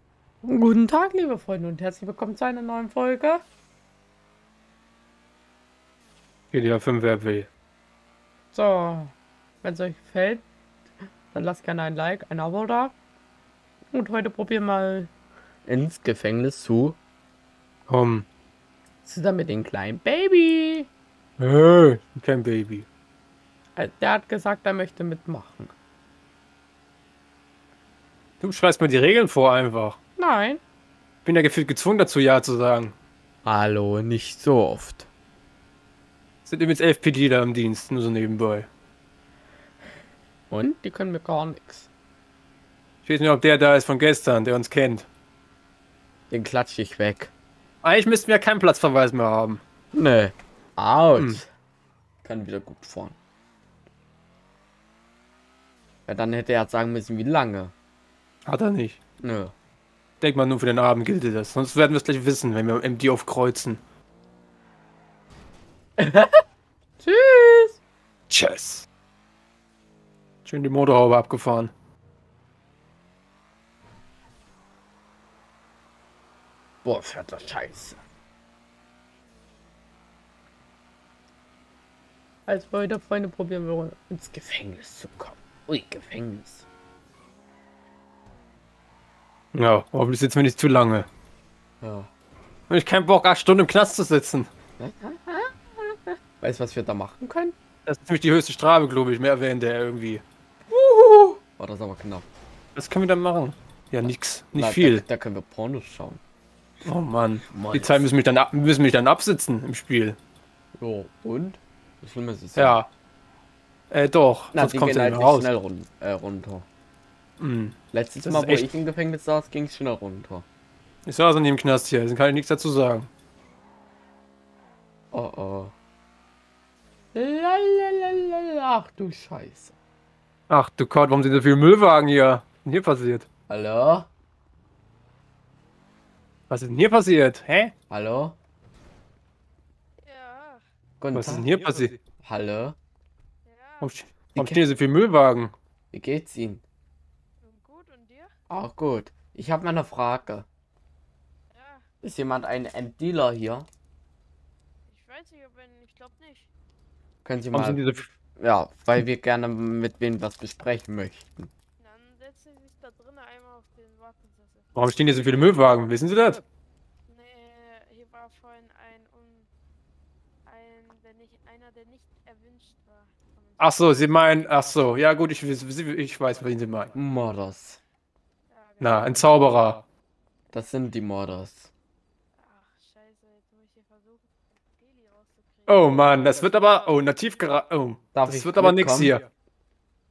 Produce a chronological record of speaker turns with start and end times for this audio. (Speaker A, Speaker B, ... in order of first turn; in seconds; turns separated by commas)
Speaker A: 0.4-3.4, Speaker B: 6.5-7.5, Speaker A: 8.5-10.4, Speaker A: 11.3-12.9, Speaker A: 13.9-15.1, Speaker A: 15.7-17.0, Speaker B: 17.9-18.3, Speaker A: 19.1-20.9, Speaker B: 21.4-22.9, Speaker A: 23.8-25.7, Speaker B: 28.4-30.0, Speaker A: 30.2-30.6, Speaker B: 31.2-33.0, Speaker A: 33.4-35.1, Speaker B: 36.5-38.7, Speaker A: 40.5-41.9, Speaker B: 43.0-45.1, Speaker A: 46.3-47.3, Speaker B: 47.8-49.6, Speaker A: 49.9-51.5, Speaker A: 52.2-53.2, Speaker A: 56.1-57.7, Speaker B: 58.5-59.0, Speaker A: 59.2-59.5, Speaker B: 60.2-63.8, Speaker A: 66.0-66.4, Speaker A: 67.0-67.8, Speaker B: 68.3-68.9, Speaker B: 70.5-71.7, Speaker A: 76.8-78.0, Speaker A: 82.5-86.7, Speaker B: 89.5-91.1, Speaker A: 91.8-92.1, Speaker B: 92.7-94.5, Speaker A: 94.8-97.5, Speaker B: 97.9-100.2, Speaker A: 100.7-102.3, Speaker B: 102.8-105.0, Speaker A: 104.0-106.2, Speaker B: 106.8-110.2, Speaker A: 107.5-108.1, Speaker A: 110.8-112.8, Speaker B: 112.6-112.9, Speaker B: 113.9-115.5, Speaker A: 114.5-116.7, Speaker B: 117.4-118.8, Speaker A: 117.9-120.5, Speaker B: 121.1-123.1, Speaker A: 125.1-125.8, Speaker A: 127.1-129.8, Speaker B: 130.5-133.3, Speaker A: 133.5-134.1, Speaker B: 136.5-137.7, Speaker A: 137.9-138.4, Speaker C: 140.0-140.7, Speaker A: 141.0-142.8, Speaker B: 141.1-142.0, Speaker C: 143.4-144.1, Speaker B: 143.8-145.5, Speaker A: 144.3-144.6, Speaker A: 145.9-146.6, Speaker C: 147.4-148.3, Speaker A: 148.5-150.5, Speaker C: 151.5-151.9, Speaker A: 152.0-153.7, Speaker C: 154.9-156.5, Speaker A: 157.2-157.8, Speaker B: 157.5-158.1, Speaker A: 158.4-161.5, Speaker C: 161.8-165.6, Speaker B: 164.8-166.4, Speaker C: 167.1-169.5, Speaker C: 170.5-174.7, Speaker B: 173.6-176.9, Speaker A: 176.9-177.8, Speaker C: 178.5-179.8, Speaker B: 178.8-179.8, Speaker A: 180.5-181.7, Speaker C: 182.4-187.2, Speaker B: 185.7-189.3, Speaker A: 188.2-189.2